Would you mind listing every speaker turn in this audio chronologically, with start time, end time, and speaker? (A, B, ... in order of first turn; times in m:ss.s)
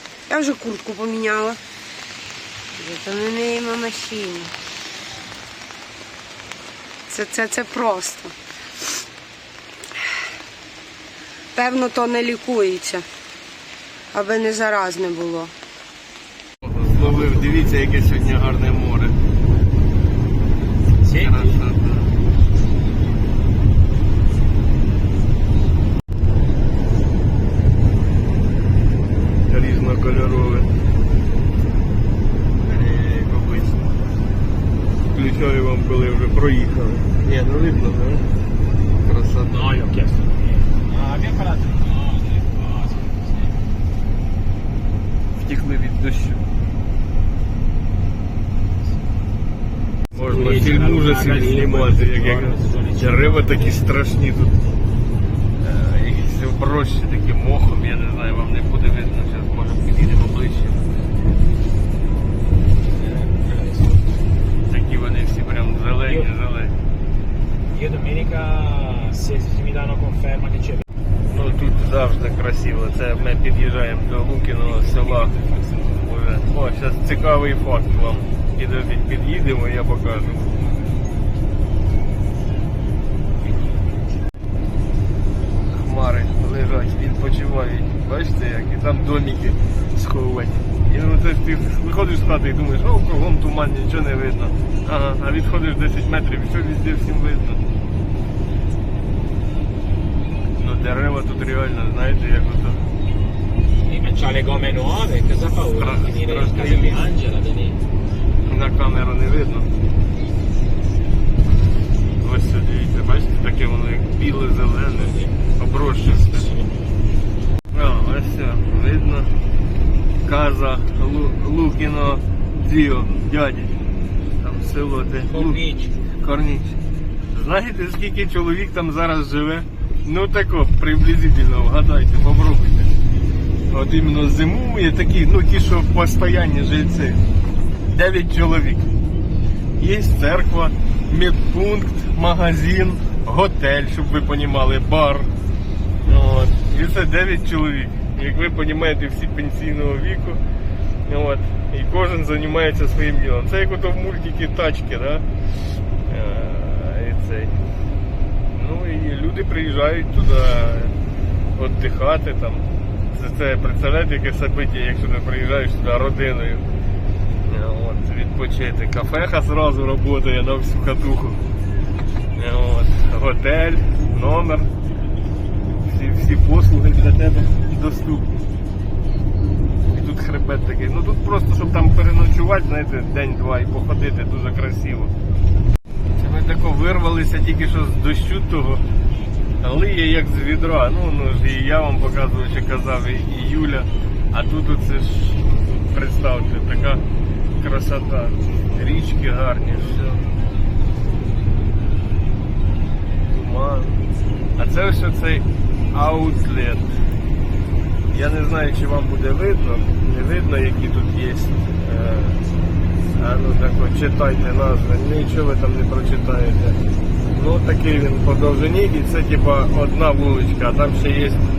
0:00.3-0:01.6 A
0:02.7-0:04.5 A
0:07.1-0:08.3 A
0:11.5-0:13.0 A
0:14.1-0:15.5 A
0:16.6-0:19.2 B
0:17.0-0:17.8 C
0:21.0-0:21.6 C
0:21.2-0:22.1 B
0:29.5-0:30.7 B
0:32.6-0:33.8 B
0:35.1-0:38.2 B
0:39.0-0:39.7 B
0:39.5-0:43.5 C
0:45.4-0:46.4 B
0:50.1-0:53.9 C
0:50.1-0:54.6 B
0:55.6-1:00.8 B
1:02.8-1:04.2 C
1:04.7-1:06.7 B
1:06.0-1:06.3 C
1:07.7-1:10.8 C
1:11.3-1:15.4 B
1:16.0-1:20.6 B
1:25.7-1:37.6 B
1:40.6-1:42.8 B
1:43.8-1:47.8 C
1:45.8-1:47.0 B
1:48.4-1:49.7 B
1:52.2-1:56.5 B
1:55.1-1:55.3 C
1:56.0-1:56.8 C
1:57.7-1:59.3 B
2:00.2-2:03.8 B
2:04.4-2:06.8 B
2:05.3-2:05.9 C
2:07.3-2:12.9 B
2:13.7-2:17.2 B
2:17.9-2:18.9 B
2:19.8-2:25.3 B
2:26.0-2:30.4 B
2:31.0-2:35.2 B
2:36.0-2:37.6 B
2:38.5-2:40.9 B
2:41.6-2:46.6 B
2:47.4-2:51.4 B
2:52.4-2:54.7 B
2:55.8-2:58.3 B
2:59.9-3:05.1 B
3:06.2-3:08.8 B
3:09.6-3:17.0 B
3:17.6-3:20.2 B
3:23.2-3:24.0 B
3:24.6-3:27.0 B
3:28.1-3:32.4 B
3:33.1-3:36.8 B
3:37.3-3:41.4 B